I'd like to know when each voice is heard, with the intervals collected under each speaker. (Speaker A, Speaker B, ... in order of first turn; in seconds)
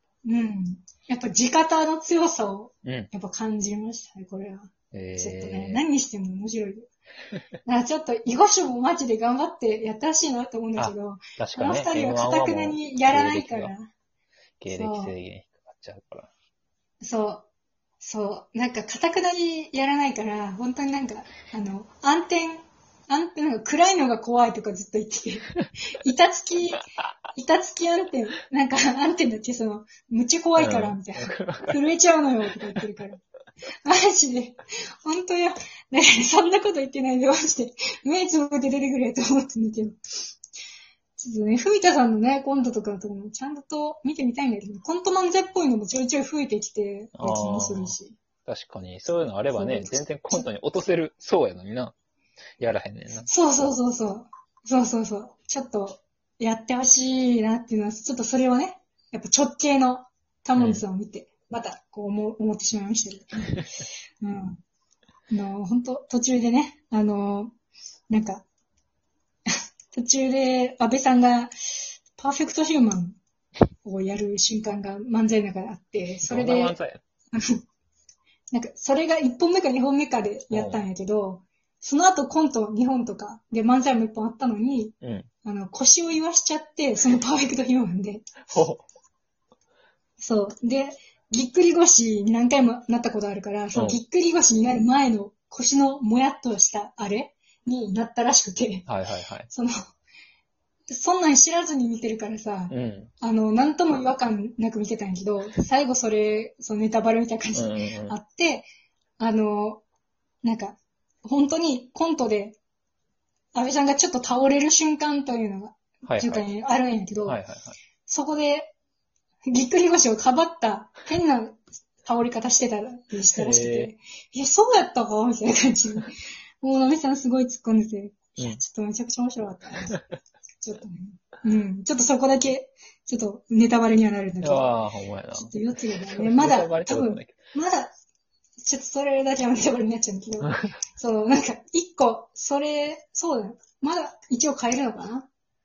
Speaker A: 0.2-6.9, 7.7-13.9, 14.7-15.2, 17.0-17.4, 18.0-33.2, 33.9-40.0, 41.2-48.2, 49.5-50.5, 53.3-63.6, 64.2-64.6, 65.3-67.5, 68.1-68.5, 69.5-71.5, 72.2-73.2, 73.8-76.8, 77.3-77.6, 78.5-88.5, 90.2-98.9, 99.5-99.8, 100.9-108.7, 109.2-109.8, 110.4-112.6, 113.5-117.4, 118.1-118.7, 119.5-130.0, 130.6-134.8, 135.3-137.9, 138.6-145.3
Speaker B: 2.9-3.1, 4.9-5.8, 10.8-13.7, 14.6-16.3, 30.6-31.8, 47.2-51.9, 52.6-53.3, 60.6-60.8, 76.2-77.0, 80.5-80.8, 85.0-85.3, 88.5-88.8, 93.7-94.0, 98.9-99.5, 102.7-103.1, 107.5-108.2, 116.1-116.5, 117.2-117.8, 123.3-123.9, 134.4-137.4, 140.4-140.7